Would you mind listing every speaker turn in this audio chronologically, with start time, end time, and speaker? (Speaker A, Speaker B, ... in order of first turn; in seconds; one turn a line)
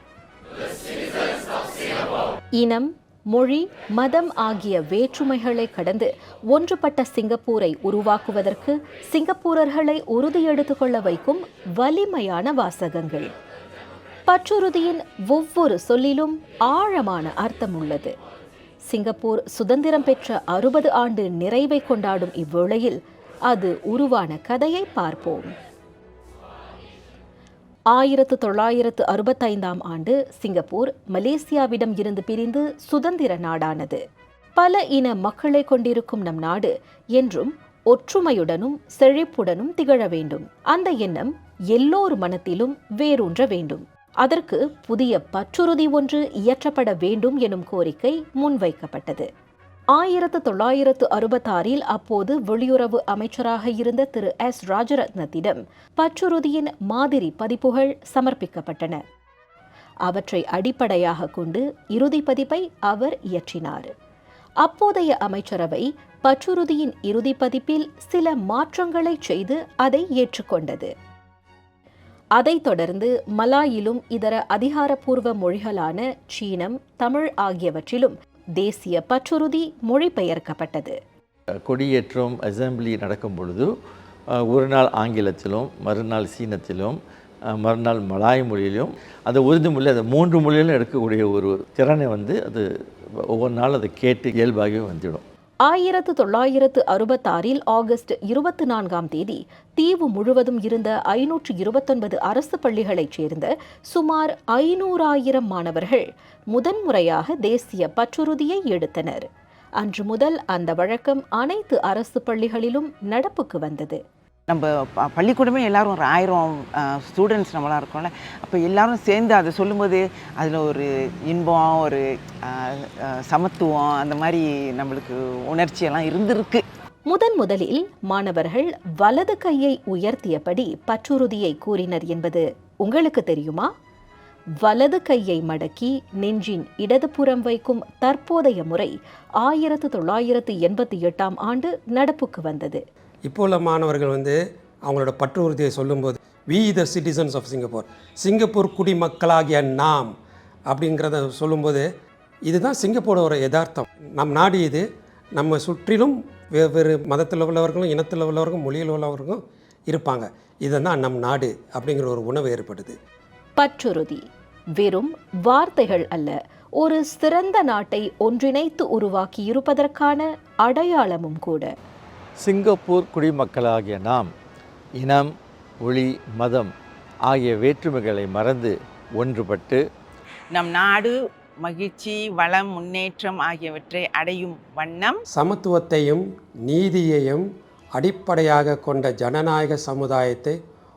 Speaker A: 2.6-13.3
Speaker A: 14.3-18.1
Speaker A: 18.9-23.0
Speaker A: 23.5-25.5
Speaker A: 27.9-34.0
Speaker A: 34.6-49.3
Speaker A: 49.9-59.0
Speaker A: 60.1-63.9
Speaker A: 64.6-70.9
Speaker A: 72.4-81.0
Speaker B: 81.7-83.7
Speaker B: 84.3-87.0
Speaker B: 87.5-92.6
Speaker B: 93.3-95.2
Speaker A: 95.7-109.3
Speaker A: 109.8-114.0
Speaker C: 114.5-126.6
Speaker A: 127.1-133.7
Speaker A: 134.6-142.8
Speaker D: 143.2-150.1
Speaker D: 150.7-151.9
Speaker D: 152.5-154.8
Speaker D: 155.4-163.0
Speaker A: 163.6-164.2
Speaker A: 164.8-171.7
Speaker B: 172.4-174.3
Speaker B: 175.0-175.3
Speaker B: 175.8-176.7
Speaker B: 177.3-179.8
Speaker C: 180.5-185.2
Speaker D: 185.3-190.6